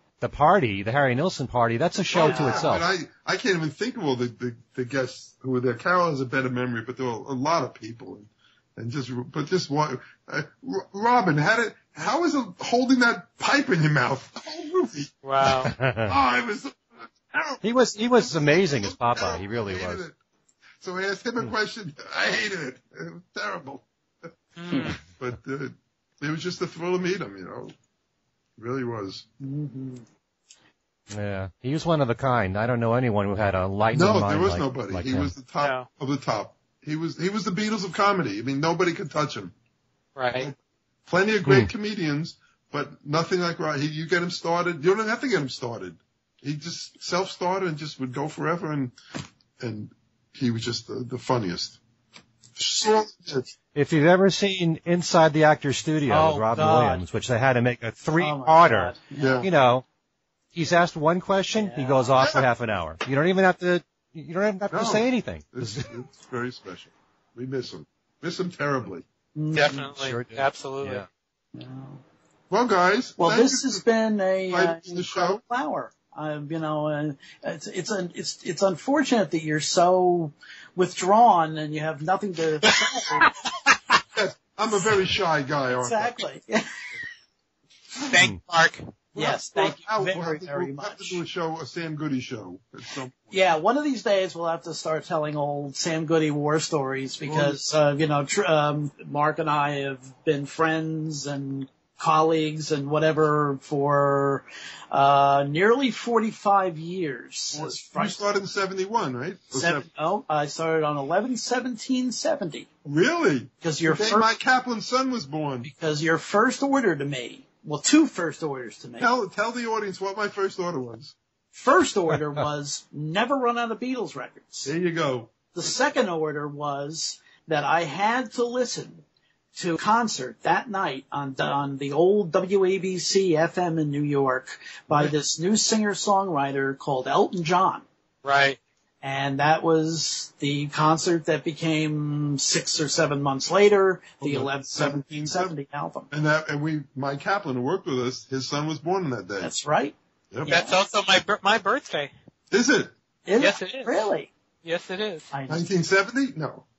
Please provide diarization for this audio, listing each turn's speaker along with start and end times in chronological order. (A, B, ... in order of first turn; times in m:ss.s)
0:00.2-0:02.8 A
0:02.1-0:17.6 B
0:02.2-0:02.7 C
0:15.2-0:15.7 D
0:15.6-0:16.2 A
0:17.6-0:20.0 A
0:18.1-0:20.2 B
0:20.8-0:23.8 B
0:24.6-0:25.0 D
0:25.0-0:27.7 B
0:28.6-0:29.2 B
0:29.4-0:30.0 C
0:31.1-0:35.3 A
0:33.9-0:39.5 B
0:35.6-0:35.9 D
0:40.2-0:40.5 D
0:41.1-0:49.0 B
0:49.6-0:51.8 B
0:52.6-0:53.5 B
0:53.7-0:59.8 A
0:56.1-0:57.0 C
0:58.2-0:59.4 C
0:59.2-0:59.5 B
1:00.5-1:06.0 A
1:01.5-1:02.2 C
1:02.2-1:02.5 B
1:04.7-1:09.0 B
1:09.4-1:09.9 C
1:09.5-1:11.0 D
1:10.0-1:11.1 A
1:11.5-1:12.0 C
1:12.5-1:13.8 B
1:13.2-1:23.3 C
1:14.5-1:15.4 B
1:24.1-1:26.3 B
1:25.8-1:26.7 C
1:28.0-1:28.2 B
1:28.0-1:28.8 D
1:29.1-1:33.4 B
1:29.2-1:31.2 C
1:33.3-1:48.2 C
1:37.2-1:37.6 B
1:47.5-1:49.8 B
1:49.5-1:52.7 C
1:52.8-1:55.7 B
1:53.6-1:54.3 C
1:55.6-1:59.1 C
1:59.0-2:01.1 B
2:01.5-2:04.7 C
2:04.6-2:05.3 B
2:05.5-2:09.0 C
2:09.5-2:17.8 C
2:18.2-2:18.6 D
2:19.0-2:26.1 C
2:24.2-2:25.6 B
2:26.1-2:29.5 B
2:29.4-2:30.8 C
2:30.5-2:32.1 D
2:32.5-2:32.9 B
2:33.3-2:34.3 C
2:33.4-2:33.9 D
2:34.6-2:35.3 D
2:35.3-2:35.6 C
2:35.5-2:36.6 B